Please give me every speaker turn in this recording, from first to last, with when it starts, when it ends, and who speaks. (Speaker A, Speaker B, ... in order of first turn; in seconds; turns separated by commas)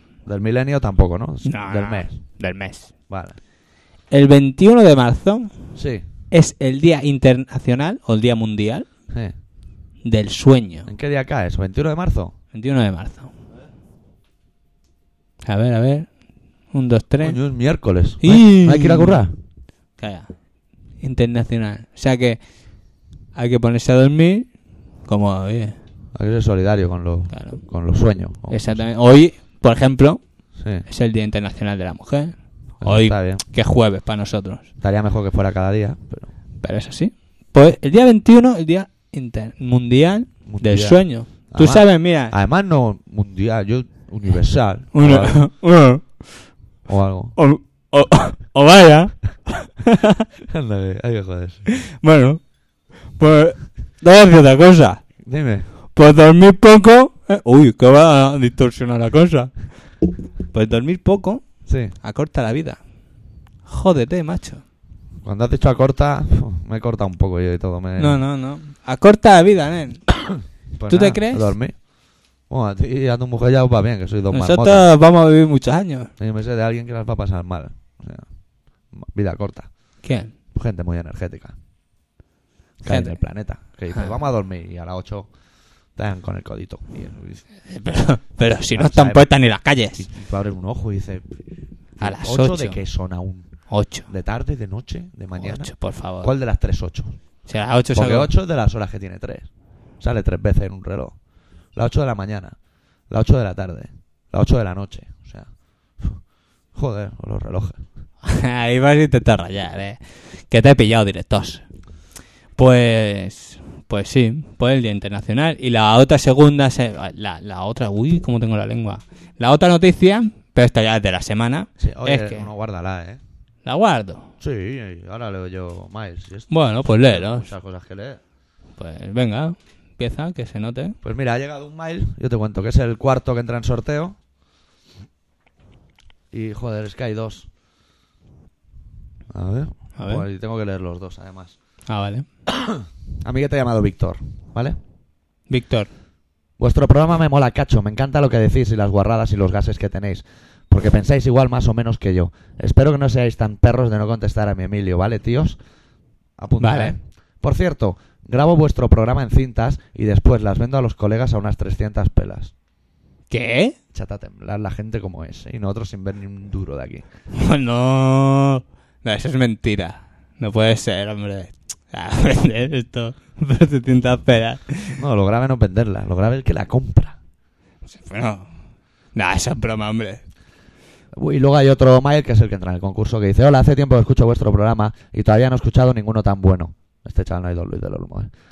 Speaker A: 0.3-2.1, Speaker B: 1.4-2.9, Speaker A: 3.1-3.4, Speaker B: 4.1-5.5, Speaker A: 5.8-6.0, Speaker B: 6.3-8.9, Speaker B: 10.1-10.9, Speaker A: 10.9-12.3, Speaker B: 12.5-13.3, Speaker B: 15.4-16.1, Speaker B: 16.7-17.4, Speaker A: 17.2-19.3, Speaker B: 18.2-19.2, Speaker B: 20.0-20.3, Speaker B: 21.0-22.4, Speaker B: 23.4-24.5, Speaker B: 25.1-25.8, Speaker A: 26.1-28.9, Speaker B: 27.3-27.6, Speaker B: 28.5-30.2, Speaker A: 30.6-30.9, Speaker B: 30.9-34.7, Speaker A: 32.8-33.4, Speaker A: 34.8-36.3, Speaker B: 36.6-42.4, Speaker A: 40.5-45.4, Speaker B: 44.9-46.2, Speaker A: 46.9-47.4, Speaker B: 47.4-50.2, Speaker A: 50.5-51.6, Speaker B: 51.7-52.4, Speaker B: 53.2-55.0, Speaker A: 55.2-55.7, Speaker B: 56.0-59.5, Speaker B: 60.5-62.8, Speaker A: 61.7-61.9, Speaker B: 63.7-64.6, Speaker A: 65.2-68.2, Speaker B: 68.0-70.2, Speaker A: 70.8-71.8, Speaker B: 70.9-71.5, Speaker A: 72.5-74.9, Speaker B: 74.3-76.1, Speaker A: 76.2-78.2, Speaker A: 78.9-79.7, Speaker B: 80.0-80.3, Speaker A: 80.5-81.5, Speaker A: 82.8-85.3, Speaker B: 82.9-83.2, Speaker A: 86.0-87.4, Speaker B: 87.7-90.1, Speaker A: 88.7-89.3, Speaker A: 90.0-91.3, Speaker A: 92.0-93.5, Speaker B: 92.0-92.8, Speaker B: 93.7-94.1, Speaker A: 94.1-97.2, Speaker B: 95.4-96.3, Speaker B: 97.5-98.3, Speaker A: 97.9-99.5, Speaker A: 100.0-101.2, Speaker A: 101.8-102.5, Speaker A: 103.1-105.5, Speaker A: 106.8-107.8, Speaker B: 108.2-111.6, Speaker B: 112.6-122.5, Speaker A: 121.8-123.2, Speaker B: 123.7-124.3, Speaker A: 124.4-128.2, Speaker B: 126.5-127.5, Speaker B: 128.8-131.0, Speaker A: 131.0-134.2, Speaker A: 136.3-137.5, Speaker A: 139.3-141.6, Speaker B: 140.0-140.3, Speaker B: 141.9-142.3, Speaker A: 142.5-144.8, Speaker B: 145.5-145.9, Speaker A: 146.6-155.6, Speaker A: 156.4-162.5, Speaker B: 156.6-156.9, Speaker B: 163.3-163.8, Speaker A: 163.9-167.1, Speaker B: 167.3-175.0, Speaker A: 175.0-177.2, Speaker B: 177.9-178.5, Speaker B: 179.1-180.2, Speaker A: 181.1-188.3